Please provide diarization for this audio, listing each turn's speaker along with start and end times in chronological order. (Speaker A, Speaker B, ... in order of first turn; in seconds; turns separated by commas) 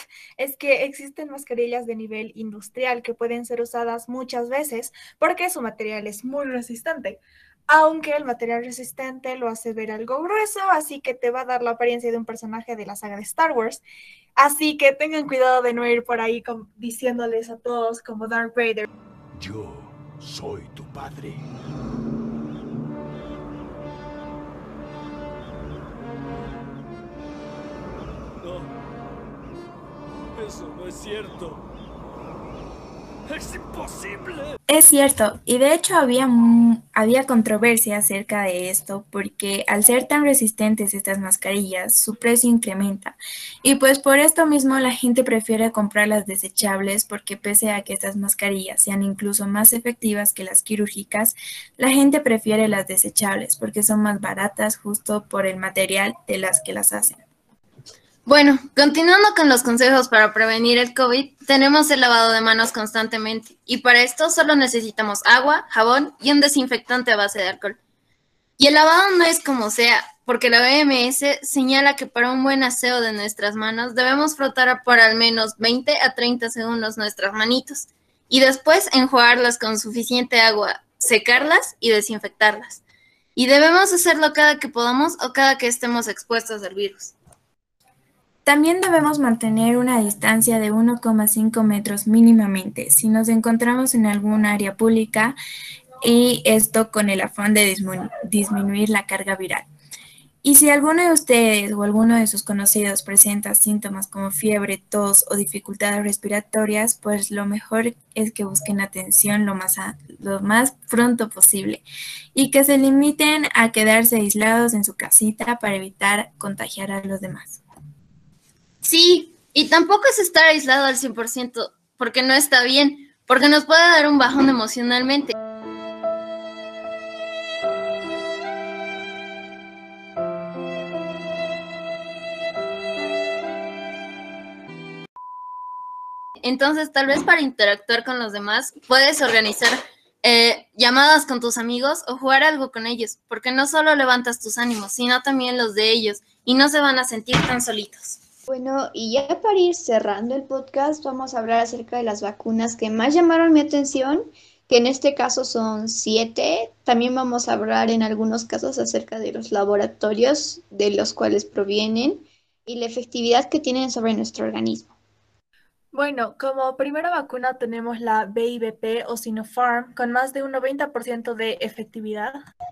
Speaker A: 0.4-13.8, Speaker A: 14.4-18.9, Speaker B: 19.3-21.5, Speaker C: 28.4-28.7, Speaker C: 30.4-31.6, Speaker B: 31.0-31.5, Speaker C: 33.3-34.5, Speaker D: 34.7-57.2, Speaker E: 58.3-67.8, Speaker E: 68.6-82.8, Speaker E: 83.4-87.2, Speaker D: 88.5-95.4, Speaker D: 96.0-99.7, Speaker D: 100.4-117.6, Speaker E: 118.8-125.3, Speaker E: 136.4-148.2, Speaker F: 148.5-164.9, Speaker A: 165.9-172.4